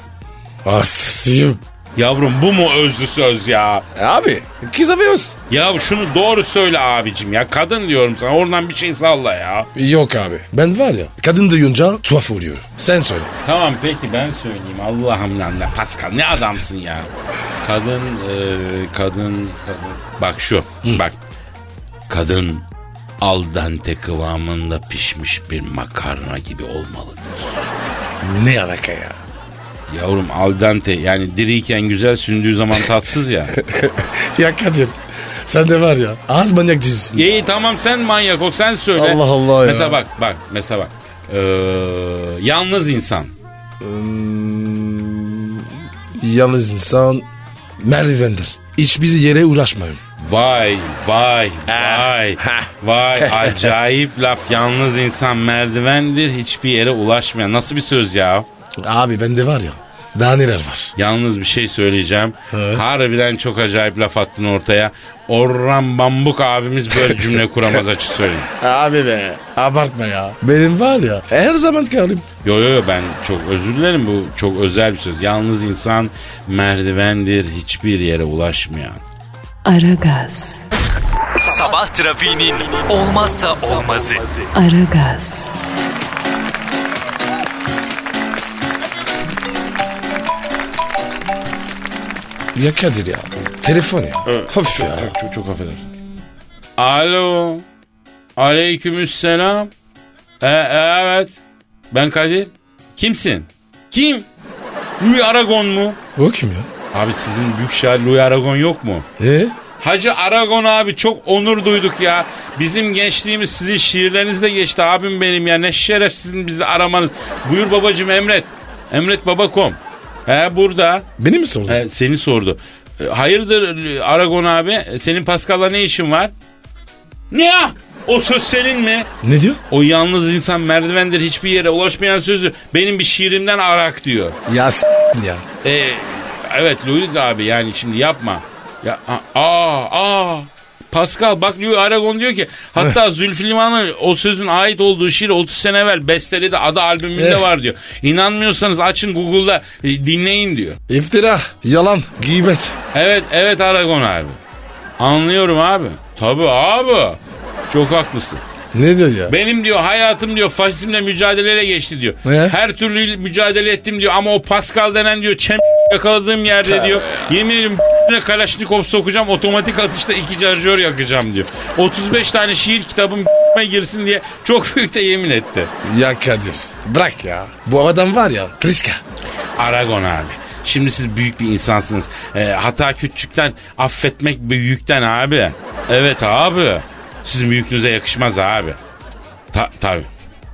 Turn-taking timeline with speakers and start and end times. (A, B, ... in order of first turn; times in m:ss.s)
0:00.6-0:01.6 A
0:02.0-0:03.8 B
0:03.9-0:05.4 A
0:05.5-0:09.7 B
0:09.7-0:13.3 A
0:13.4-0:21.2 B
0:22.1-0:22.6 B
0:23.2-0:27.6 B
0:28.2-0:29.2 A
0:29.9-0:33.6 B
0:33.5-0:37.2 A
0:37.1-0:43.3 B
0:39.0-0:40.0 A
0:43.8-0:47.3 A
0:47.8-0:50.0 A
0:50.2-0:58.5 B
0:51.7-0:53.7 A
0:58.8-1:00.9 A
1:01.0-1:08.5 B
1:02.5-1:02.8 A
1:06.9-1:07.2 A
1:08.5-1:12.2 A
1:12.4-1:19.0 B
1:19.6-1:20.6 C
1:21.4-1:24.4 D
1:24.5-1:25.5 C
1:32.5-1:35.1 A
1:34.2-1:35.8 B
1:36.8-1:37.6 B
1:38.4-1:39.7 B
1:40.4-1:41.4 B
1:41.9-1:44.3 B
1:45.0-1:46.0 B
1:46.2-1:46.7 A
1:46.9-1:49.0 B
1:49.2-1:49.5 A
1:49.8-2:01.1 B
2:01.2-2:01.8 A
2:01.7-2:06.3 B
2:07.3-2:09.1 B
2:09.2-2:09.6 A
2:09.7-2:14.4 B
2:14.5-2:15.4 A
2:15.6-2:30.8 B
2:27.1-2:27.5 A
2:30.9-2:32.8 A
2:32.9-2:34.4 B
2:35.0-2:38.4 B
2:38.7-2:39.4 A
2:39.3-2:55.7 B
2:42.2-2:42.6 A
2:46.6-2:47.3 A
2:55.8-2:59.0 A
2:59.6-3:08.8 B
3:09.5-3:10.1 B